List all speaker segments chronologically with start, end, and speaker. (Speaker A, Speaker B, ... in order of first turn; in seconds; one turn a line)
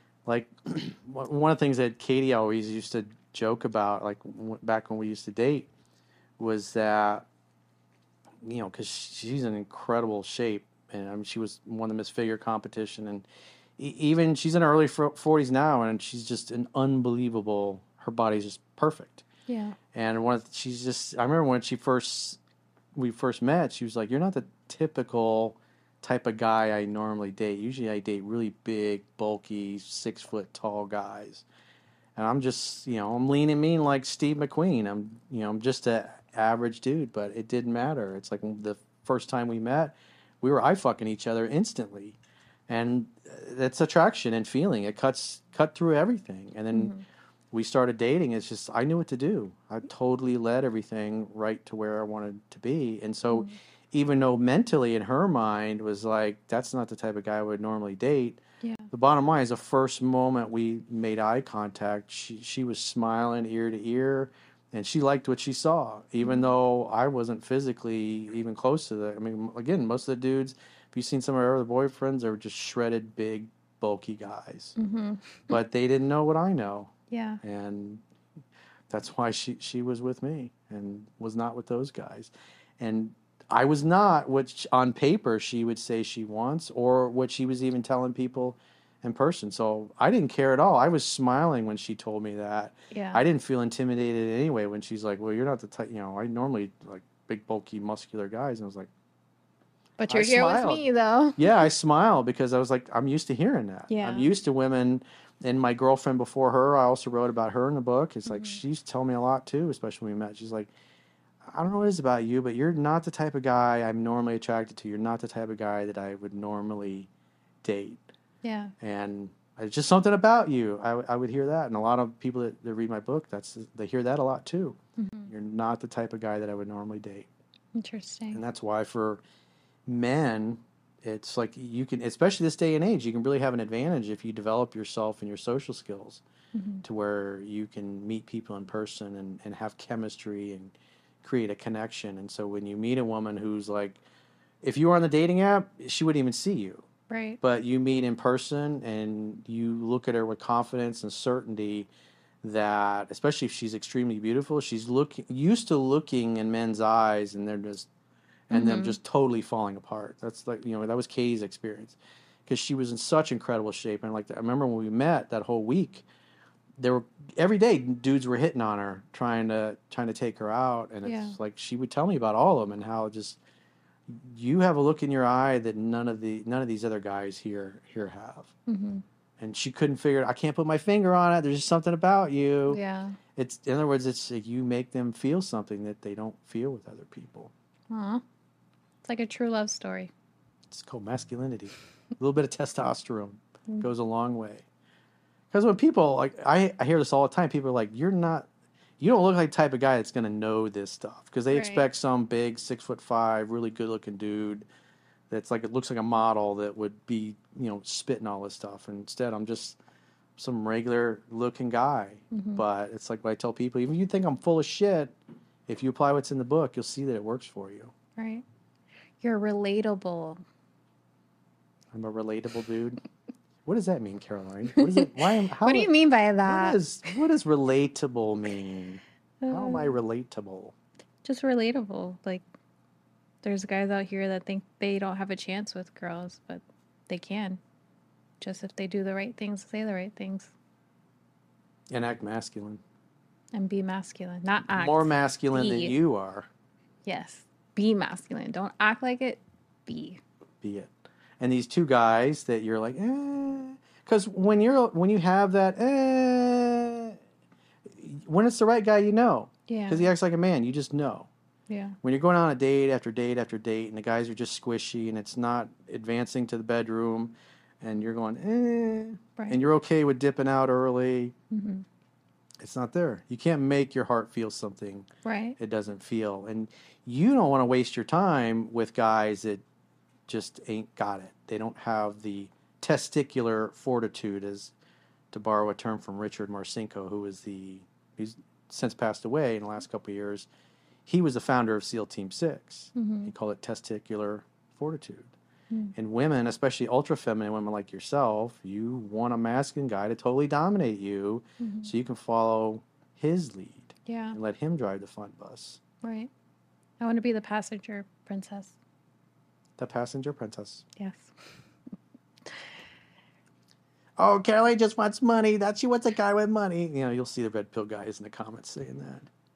Speaker A: 0.2-5.7
Speaker A: 6.4-7.2
Speaker A: 8.4-13.2
Speaker A: 13.8-19.2
Speaker B: 19.5-19.8
Speaker A: 19.9-22.4
Speaker A: 22.9-31.4
Speaker A: 32.1-42.2
Speaker A: 42.7-46.9
Speaker B: 46.7-47.0
Speaker A: 47.5-58.4
Speaker B: 53.3-53.6
Speaker B: 58.6-58.9
Speaker A: 58.9-74.8
Speaker B: 66.2-66.5
Speaker B: 74.8-75.5
Speaker A: 75.5-78.0
Speaker B: 77.1-77.4
Speaker A: 78.9-98.9
Speaker B: 92.9-93.2
Speaker B: 100.0-101.7
Speaker A: 100.1-100.8
Speaker A: 101.4-110.7
Speaker B: 103.9-104.3
Speaker B: 108.3-108.6
Speaker A: 111.5-117.1
Speaker A: 117.6-118.0
Speaker B: 118.4-118.7
Speaker A: 118.8-124.8
Speaker B: 125.0-125.3
Speaker A: 125.3-127.3
Speaker B: 127.7-128.4
Speaker A: 128.3-129.2
Speaker A: 129.9-136.2
Speaker B: 136.5-136.8
Speaker A: 136.8-144.0
Speaker A: 144.6-146.8
Speaker B: 147.1-147.4
Speaker A: 147.4-151.9
Speaker A: 152.4-157.9
Speaker A: 158.5-166.1
Speaker B: 158.5-159.0
Speaker A: 166.8-173.4
Speaker B: 171.0-171.4
Speaker A: 174.1-178.5
Speaker B: 178.7-179.0
Speaker A: 179.4-182.8
Speaker B: 182.7-183.2
Speaker A: 183.3-187.5
Speaker B: 187.9-188.2
Speaker B: 189.0-190.1
Speaker A: 190.7-194.7
Speaker A: 195.5-198.5
Speaker A: 199.0-204.7
Speaker B: 201.5-201.9
Speaker A: 205.3-209.8
Speaker A: 210.4-215.1
Speaker B: 212.3-212.6
Speaker A: 215.7-217.9
Speaker B: 218.2-218.4
Speaker B: 219.2-220.4
Speaker A: 221.9-223.0
Speaker A: 223.7-225.9
Speaker B: 224.8-226.8
Speaker A: 226.4-230.7
Speaker B: 229.4-229.9
Speaker B: 231.2-232.4
Speaker B: 233.4-237.6
Speaker B: 238.4-240.5
Speaker A: 241.9-242.8
Speaker B: 243.5-245.9
Speaker A: 244.7-246.5
Speaker B: 247.0-250.2
Speaker A: 250.6-257.2
Speaker A: 257.9-261.3
Speaker B: 259.7-260.1
Speaker B: 261.7-262.0
Speaker A: 262.0-271.3
Speaker B: 271.5-271.8
Speaker A: 272.6-279.6
Speaker B: 275.2-275.6
Speaker A: 280.3-284.7
Speaker A: 285.3-290.5
Speaker A: 291.1-295.3
Speaker B: 292.9-293.3
Speaker A: 295.9-305.8
Speaker B: 301.6-301.9
Speaker B: 304.1-304.4
Speaker B: 306.0-306.3
Speaker B: 307.0-308.7
Speaker A: 309.8-310.8
Speaker B: 311.0-311.3
Speaker A: 314.2-319.3